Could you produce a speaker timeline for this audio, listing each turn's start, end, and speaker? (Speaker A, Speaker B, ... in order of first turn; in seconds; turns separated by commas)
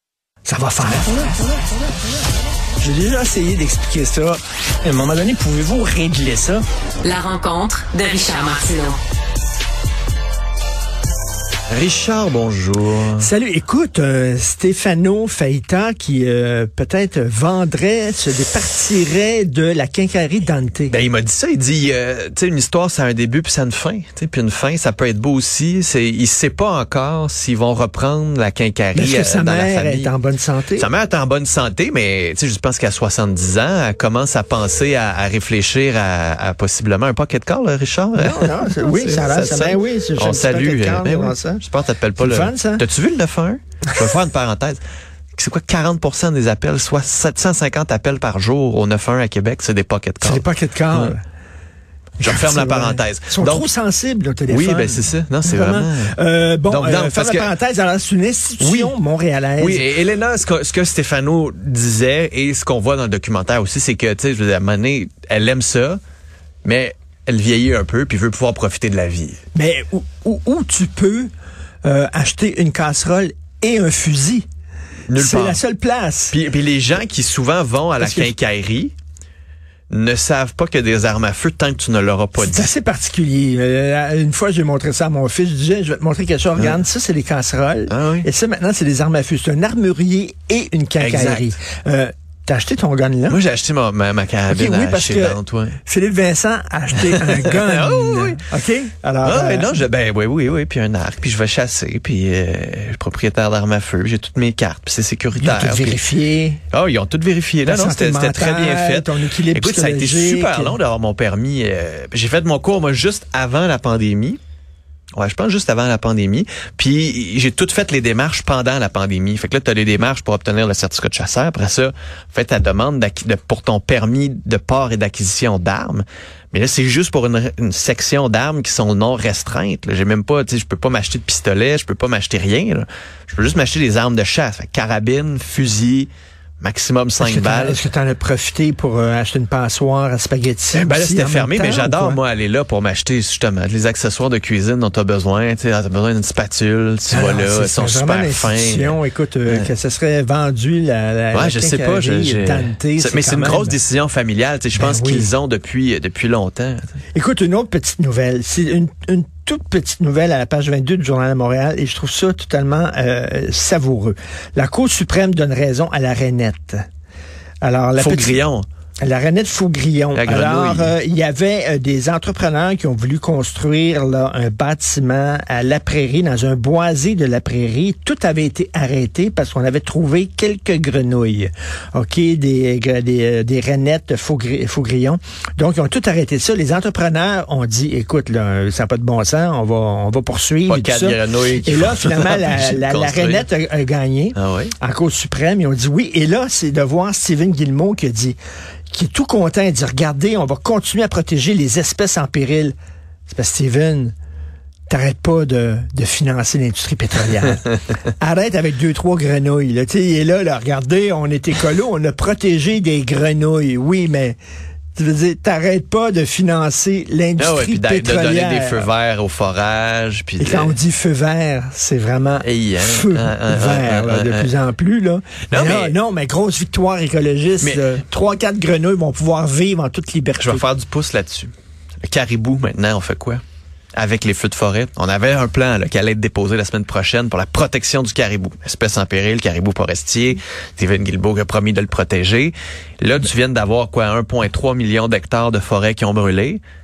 Speaker A: 0.5-1.7, Speaker A: 2.8-6.6, Speaker B: 7.0-9.0, Speaker C: 11.7-13.3, Speaker A: 13.2-21.0, Speaker C: 20.9-30.1, Speaker A: 28.9-30.9, Speaker C: 30.8-44.8, Speaker A: 38.2-41.6, Speaker A: 42.2-42.9, Speaker C: 45.4-51.1, Speaker A: 50.2-51.2, Speaker C: 52.2-53.7, Speaker A: 52.2-59.9, Speaker C: 54.5-56.1, Speaker C: 56.7-57.5, Speaker C: 58.6-58.9, Speaker C: 59.6-66.0, Speaker C: 66.6-69.4, Speaker A: 69.5-71.3, Speaker A: 71.8-74.5, Speaker C: 75.1-75.6, Speaker A: 75.1-76.4, Speaker C: 76.3-78.9, Speaker A: 78.0-78.3, Speaker C: 79.9-82.7, Speaker A: 82.4-93.4, Speaker C: 86.6-86.8, Speaker C: 87.9-88.3, Speaker C: 91.0-91.5, Speaker C: 93.3-95.8, Speaker A: 94.5-99.9, Speaker C: 97.0-98.5, Speaker C: 99.2-106.0, Speaker A: 105.4-106.6, Speaker C: 106.7-114.4, Speaker A: 107.6-110.8, Speaker C: 115.2-137.8, Speaker A: 137.2-142.2, Speaker C: 140.8-149.7, Speaker A: 147.1-153.8, Speaker C: 151.3-156.9, Speaker A: 154.7-155.3, Speaker A: 157.1-166.8, Speaker A: 167.6-168.4, Speaker C: 168.0-168.7, Speaker A: 169.0-198.4, Speaker C: 170.1-170.9, Speaker C: 190.7-193.5, Speaker C: 194.4-194.7, Speaker A: 198.9-202.8, Speaker A: 203.3-204.2, Speaker A: 204.9-214.4, Speaker A: 214.9-218.9, Speaker C: 217.4-220.8, Speaker A: 220.4-230.7, Speaker C: 222.4-224.5, Speaker C: 225.5-226.0, Speaker C: 227.6-228.0, Speaker C: 230.4-231.5, Speaker C: 232.0-233.4, Speaker C: 233.9-246.6